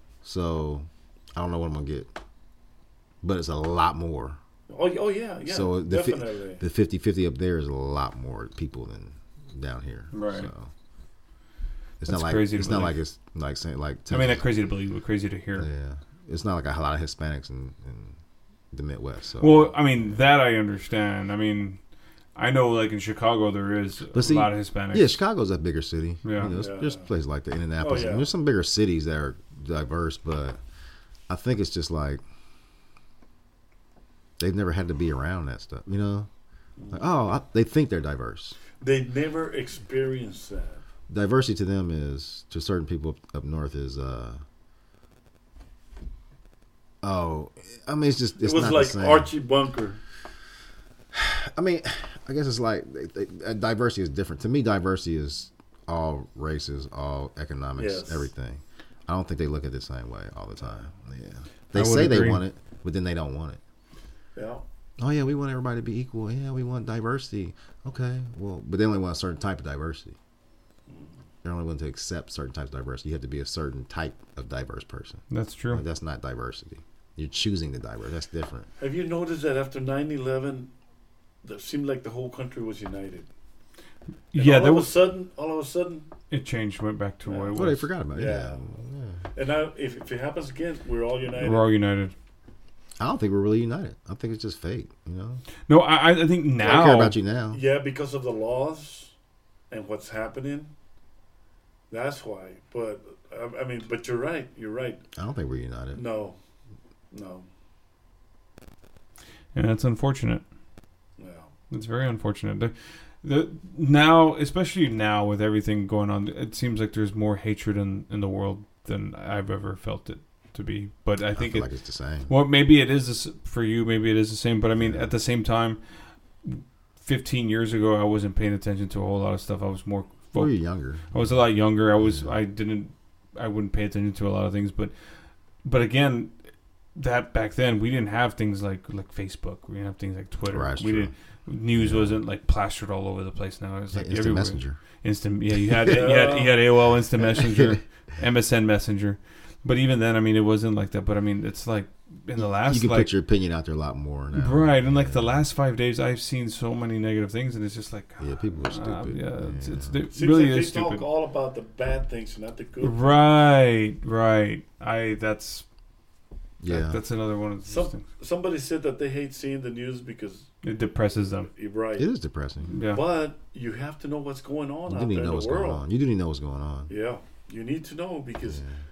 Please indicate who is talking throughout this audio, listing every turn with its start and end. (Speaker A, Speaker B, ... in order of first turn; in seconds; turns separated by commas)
Speaker A: 0.2-2.1, Speaker A: 3.2-4.4, Speaker B: 4.7-6.6, Speaker A: 5.5-10.7, Speaker C: 10.1-10.5, Speaker A: 12.0-14.5, Speaker C: 12.1-13.0, Speaker C: 14.1-15.7, Speaker A: 15.6-18.2, Speaker A: 18.7-20.2, Speaker C: 19.4-21.8, Speaker C: 22.4-25.2, Speaker A: 24.1-30.6, Speaker C: 26.2-26.6, Speaker B: 26.4-27.1, Speaker B: 27.8-28.3, Speaker A: 31.3-32.2, Speaker A: 34.4-36.3, Speaker A: 36.9-38.6, Speaker B: 38.8-40.8, Speaker A: 41.1-44.4, Speaker A: 47.0-49.3, Speaker B: 48.4-50.0, Speaker A: 51.1-63.6, Speaker B: 57.8-58.3, Speaker C: 61.7-62.4, Speaker B: 64.3-64.6, Speaker A: 65.0-70.2, Speaker B: 70.9-71.2, Speaker A: 71.4-78.7, Speaker C: 75.3-75.8, Speaker B: 78.8-80.7, Speaker B: 81.4-83.3, Speaker C: 84.3-84.9, Speaker B: 84.3-86.1, Speaker C: 86.3-87.9, Speaker B: 87.2-88.7, Speaker A: 87.5-89.2, Speaker B: 89.3-91.7, Speaker C: 91.4-92.1, Speaker A: 93.0-95.4, Speaker C: 95.7-97.2, Speaker A: 96.6-97.6, Speaker B: 97.5-99.1, Speaker B: 99.7-100.7, Speaker B: 101.9-105.0, Speaker A: 105.2-106.0, Speaker B: 105.9-106.4, Speaker B: 107.1-107.5, Speaker C: 109.5-110.4, Speaker B: 111.2-111.5, Speaker C: 111.7-121.7, Speaker A: 121.3-122.3, Speaker C: 122.3-136.3, Speaker A: 124.8-125.1, Speaker A: 130.3-132.3, Speaker C: 136.9-153.1, Speaker A: 140.5-141.1, Speaker A: 141.7-142.2, Speaker A: 143.9-144.8, Speaker B: 145.9-146.6, Speaker A: 147.2-147.8, Speaker A: 152.4-155.4, Speaker C: 154.3-161.1, Speaker A: 158.2-160.0, Speaker B: 160.1-163.2, Speaker C: 162.8-165.7, Speaker A: 166.6-167.0, Speaker C: 166.7-168.0, Speaker B: 167.7-170.5, Speaker C: 170.6-171.5, Speaker B: 171.5-172.1, Speaker A: 172.0-172.7, Speaker C: 172.7-173.0, Speaker B: 172.9-175.8, Speaker A: 174.9-176.9, Speaker B: 176.9-178.6, Speaker A: 178.4-178.8